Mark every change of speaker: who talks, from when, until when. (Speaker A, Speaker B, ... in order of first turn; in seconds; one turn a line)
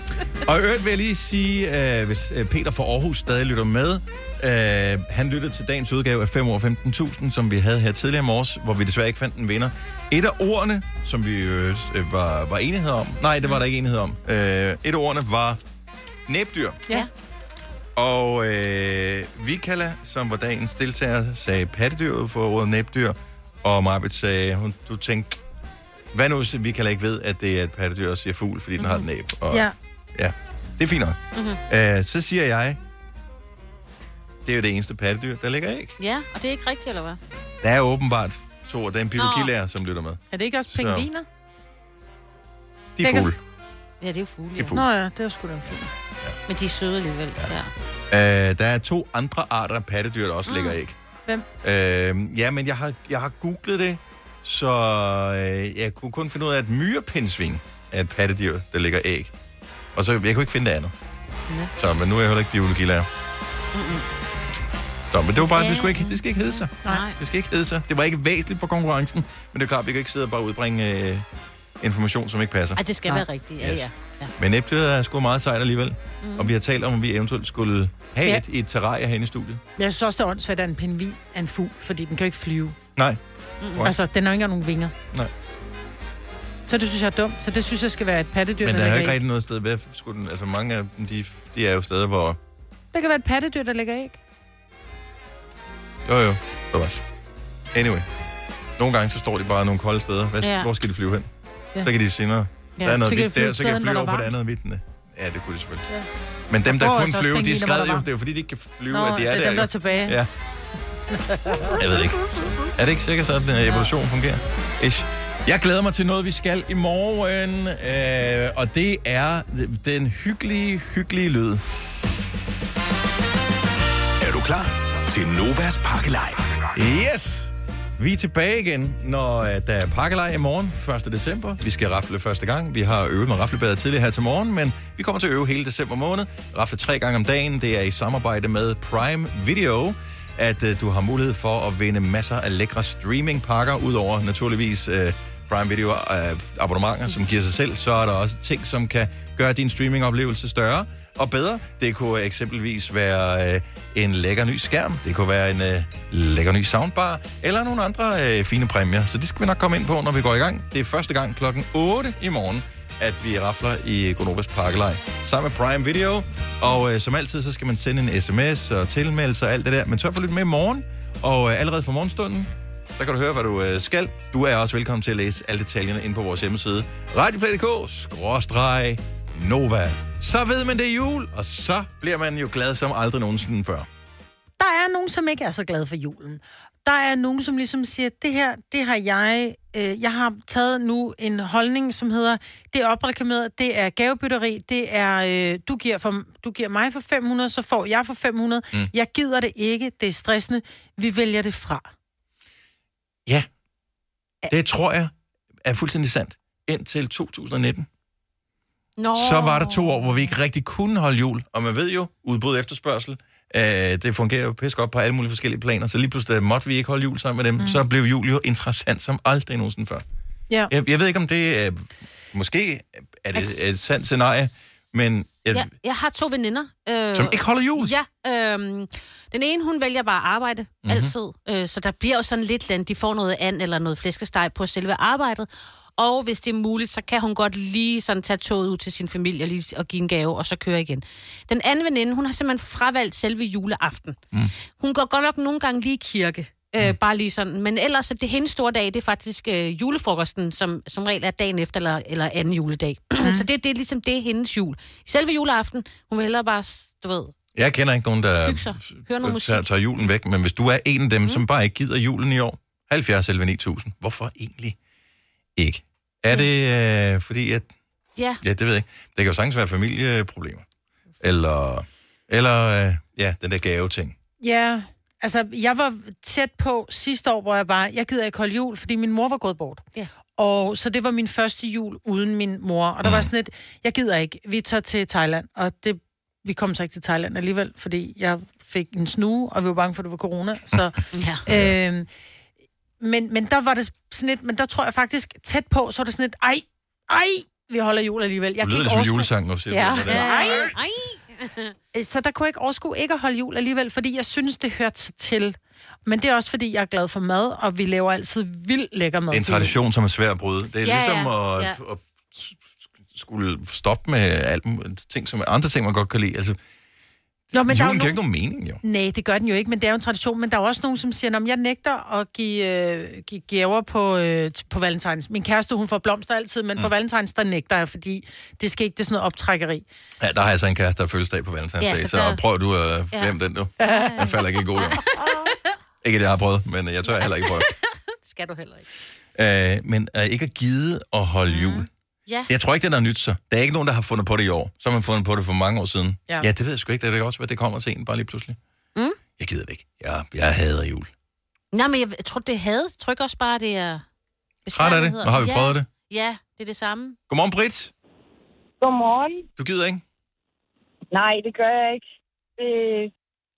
Speaker A: 0.4-15.6
Speaker A: 16.3-16.8
Speaker A: 17.9-25.4
Speaker A: 26.1-32.8
Speaker B: 28.8-29.1
Speaker B: 31.3-31.6
Speaker A: 34.5-36.0
Speaker B: 36.0-37.2
Speaker A: 37.6-41.1
Speaker B: 39.2-39.5
Speaker C: 40.3-41.3
Speaker A: 43.0-43.4
Speaker C: 43.0-43.3
Speaker B: 44.0-44.8
Speaker A: 44.6-44.8
Speaker C: 44.7-45.9
Speaker B: 46.5-47.7
Speaker A: 48.1-51.0
Speaker B: 50.5-50.8
Speaker A: 51.6-59.3
Speaker A: 59.9-60.9
Speaker A: 61.8-63.1
Speaker B: 63.7-64.1
Speaker A: 65.1-71.2
Speaker B: 65.4-67.2
Speaker A: 71.8-72.8
Speaker B: 72.8-74.3
Speaker A: 73.6-79.6
Speaker B: 76.2-76.5
Speaker C: 79.8-82.8
Speaker B: 83.6-83.9
Speaker C: 83.8-84.9
Speaker C: 86.7-89.2
Speaker A: 88.6-92.4
Speaker C: 92.9-94.2
Speaker A: 96.0-97.0
Speaker A: 97.7-98.1
Speaker A: 98.8-101.3
Speaker B: 100.4-100.7
Speaker A: 101.8-105.8
Speaker C: 102.8-104.3
Speaker A: 106.5-110.3
Speaker C: 106.7-108.1
Speaker C: 108.9-110.2
Speaker C: 111.1-111.8
Speaker A: 111.8-121.6
Speaker D: 124.2-126.5
Speaker A: 126.8-183.9
Speaker C: 184.6-201.9
Speaker A: 204.5-205.1
Speaker A: 205.6-207.9
Speaker B: 209.0-210.1
Speaker A: 209.1-220.0
Speaker A: 220.7-225.7
Speaker B: 223.3-223.6
Speaker B: 225.5-244.2
Speaker A: 227.1-227.9
Speaker A: 230.8-231.1
Speaker B: 244.8-257.3
Speaker C: 253.2-253.4
Speaker A: 257.6-264.8
Speaker B: 258.4-259.6
Speaker A: 265.6-267.7
Speaker A: 268.4-270.6
Speaker A: 271.2-274.2
Speaker C: 274.4-279.8
Speaker C: 280.4-292.1
Speaker A: 283.0-283.3
Speaker B: 291.1-291.4
Speaker C: 293.0-300.7
Speaker A: 298.6-300.8
Speaker B: 300.1-301.7
Speaker C: 301.9-309.8
Speaker A: 309.3-316.6
Speaker B: 310.8-311.8
Speaker C: 317.5-318.2
Speaker A: 317.6-318.8
Speaker C: 318.8-329.9
Speaker A: 330.2-335.0
Speaker B: 331.8-332.4
Speaker B: 333.1-335.6
Speaker C: 333.8-334.1
Speaker A: 336.0-337.7
Speaker B: 337.2-338.9
Speaker A: 339.4-341.9
Speaker C: 341.5-341.8
Speaker A: 342.5-348.6
Speaker A: 349.4-351.1
Speaker B: 351.7-354.0
Speaker B: 354.6-357.2
Speaker A: 354.7-355.9
Speaker A: 357.3-357.9
Speaker E: 358.8-359.4
Speaker A: 359.6-360.0
Speaker E: 361.1-362.0
Speaker E: 362.6-363.1